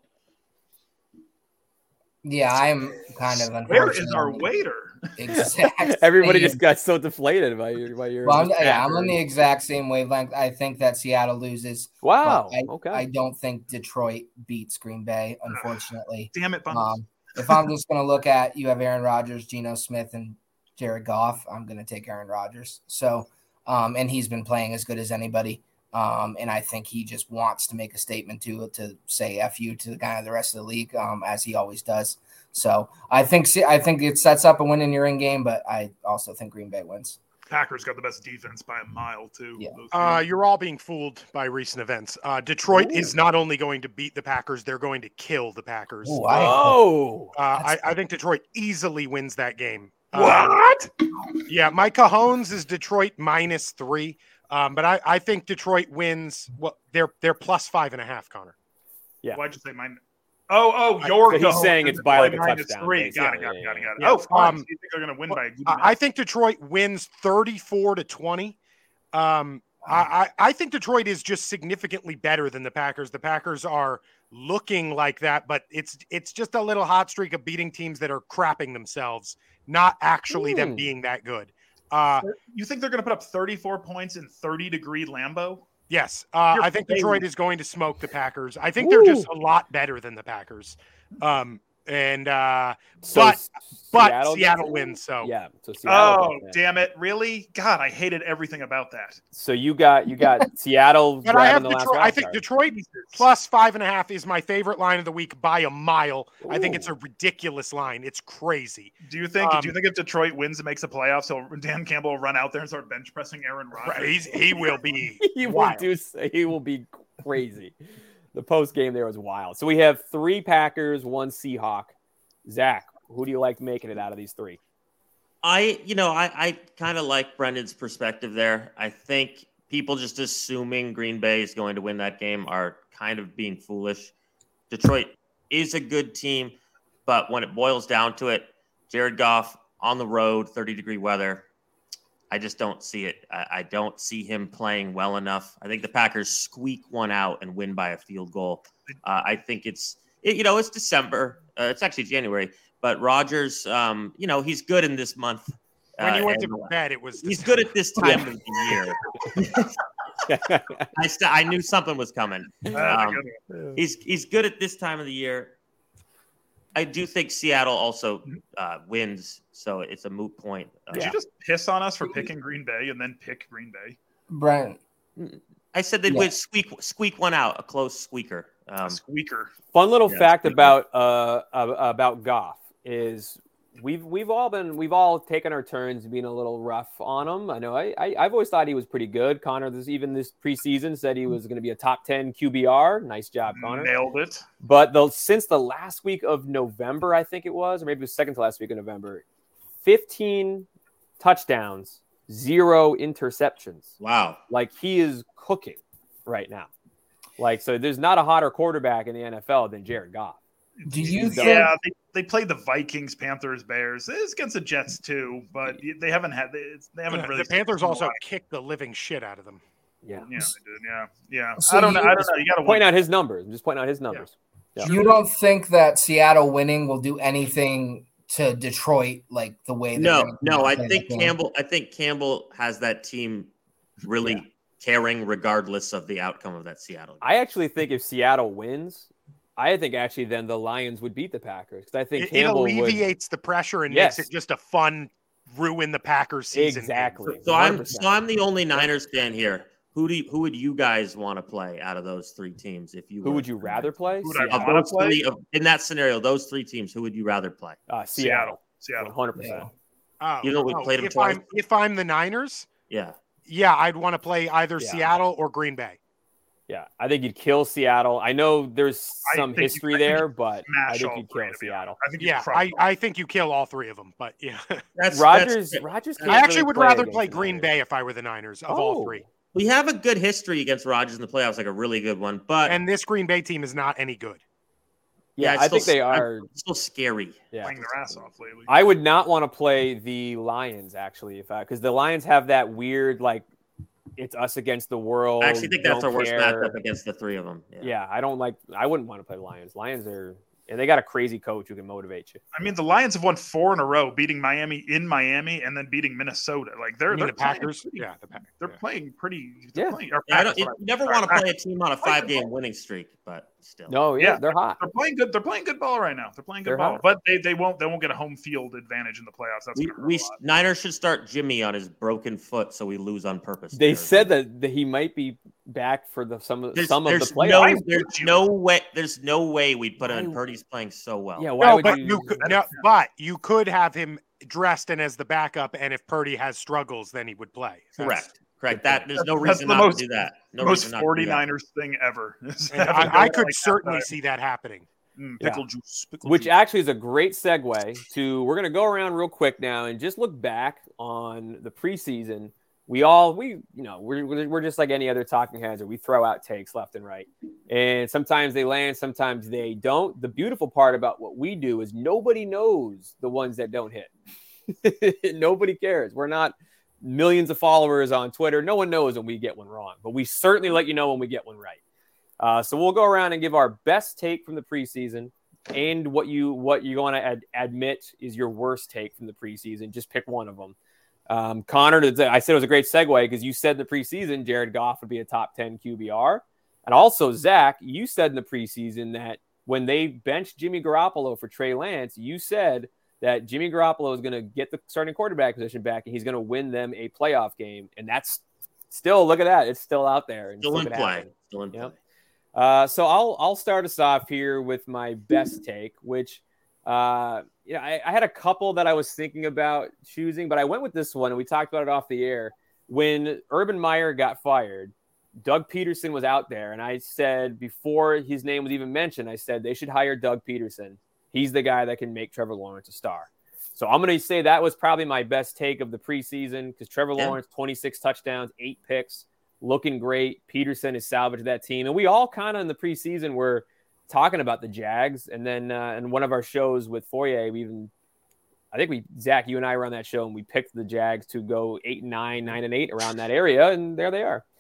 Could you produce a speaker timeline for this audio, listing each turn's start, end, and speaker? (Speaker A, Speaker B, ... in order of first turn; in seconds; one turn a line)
Speaker A: 2.2-4.5
Speaker B: 3.7-5.1
Speaker A: 5.2-6.6
Speaker C: 5.3-9.2
Speaker A: 8.2-37.2
Speaker C: 12.0-13.0
Speaker B: 16.3-17.6
Speaker B: 37.5-40.2
Speaker D: 39.9-46.6
Speaker C: 42.7-43.1
Speaker A: 46.0-46.8
Speaker C: 46.3-47.3
Speaker D: 47.3-50.6
Speaker B: 50.1-50.8
Speaker D: 51.5-58.5
Speaker B: 59.3-65.9
Speaker D: 61.0-61.7
Speaker C: 61.3-63.9
Speaker D: 64.0-64.7
Speaker D: 65.3-68.5
Speaker D: 69.1-82.2
Speaker C: 80.3-80.9
Speaker B: 82.2-85.6
Speaker D: 85.9-93.4
Speaker B: 86.5-87.2
Speaker C: 88.8-89.3
Speaker C: 93.0-96.6
Speaker D: 93.9-95.3
Speaker B: 95.8-99.2
Speaker C: 99.3-102.4
Speaker D: 101.2-109.7
Speaker B: 102.7-103.2
Speaker C: 106.4-106.9
Speaker B: 109.0-114.8
Speaker D: 113.8-115.9
Speaker C: 115.2-117.7
Speaker C: 118.3-121.9
Speaker C: 122.5-124.6
Speaker E: 125.4-134.1
Speaker E: 134.7-141.4
Speaker E: 142.3-159.8
Speaker D: 156.0-158.2
Speaker C: 158.0-158.3
Speaker C: 160.2-160.9
Speaker E: 160.9-163.2
Speaker C: 162.6-163.0
Speaker B: 162.7-163.4
Speaker C: 163.5-163.8
Speaker E: 163.7-165.5
Speaker E: 166.7-171.1
Speaker B: 170.9-174.0
Speaker A: 174.3-174.8
Speaker E: 175.2-179.0
Speaker B: 178.8-179.5
Speaker C: 179.7-193.9
Speaker E: 180.1-180.7
Speaker B: 193.5-194.4
Speaker C: 194.6-199.2
Speaker C: 199.8-200.7
Speaker C: 201.2-203.9
Speaker E: 204.0-204.4
Speaker C: 204.5-206.7
Speaker C: 207.4-210.4
Speaker B: 210.8-218.2
Speaker A: 210.8-211.7
Speaker C: 211.1-211.7
Speaker D: 217.1-219.6
Speaker C: 220.0-220.3
Speaker B: 220.2-222.9
Speaker A: 221.6-222.3
Speaker C: 222.6-224.9
Speaker A: 224.8-231.3
Speaker E: 229.9-233.5
Speaker E: 234.0-237.3
Speaker C: 237.2-243.1
Speaker D: 242.2-247.2
Speaker C: 243.9-244.3
Speaker C: 246.5-248.2
Speaker E: 247.3-253.9
Speaker C: 253.2-254.7
Speaker B: 254.2-255.2
Speaker E: 254.5-257.8
Speaker C: 257.9-259.7
Speaker B: 258.1-259.1
Speaker A: 259.4-259.7
Speaker D: 260.2-262.7
Speaker E: 260.4-261.4
Speaker E: 262.9-263.1
Speaker D: 263.4-266.0
Speaker C: 264.8-265.1
Speaker C: 266.7-272.0
Speaker B: 269.2-272.8
Speaker D: 272.2-274.8
Speaker E: 274.9-276.5
Speaker C: 275.1-277.7
Speaker D: 276.3-279.2
Speaker C: 278.7-279.2
Speaker E: 279.5-282.8
Speaker D: 282.6-284.4
Speaker C: 285.4-286.5
Speaker E: 285.4-287.5
Speaker B: 287.6-288.7
Speaker C: 288.7-293.4
Speaker C: 294.2-296.7
Speaker E: 295.4-297.9
Speaker C: 297.8-302.4
Speaker B: 302.5-311.5
Speaker D: 307.1-308.8
Speaker E: 310.1-314.0
Speaker B: 312.0-312.4
Speaker C: 313.9-314.8
Speaker B: 314.2-320.4
Speaker C: 316.6-317.0
Speaker E: 319.8-324.3
Speaker C: 323.7-327.8
Speaker E: 326.7-331.9
Speaker B: 327.5-328.4
Speaker C: 330.0-330.4
Speaker C: 331.4-332.5
Speaker D: 331.6-338.2
Speaker B: 332.4-332.8
Speaker E: 338.0-341.4
Speaker C: 338.7-339.1
Speaker B: 339.2-344.1
Speaker D: 342.7-344.9
Speaker B: 345.2-346.5
Speaker C: 346.2-364.1
Speaker C: 364.7-371.8
Speaker C: 372.4-380.7
Speaker C: 381.3-401.9
Speaker E: 400.6-401.9
Speaker C: 402.5-437.9
Speaker C: 438.7-444.4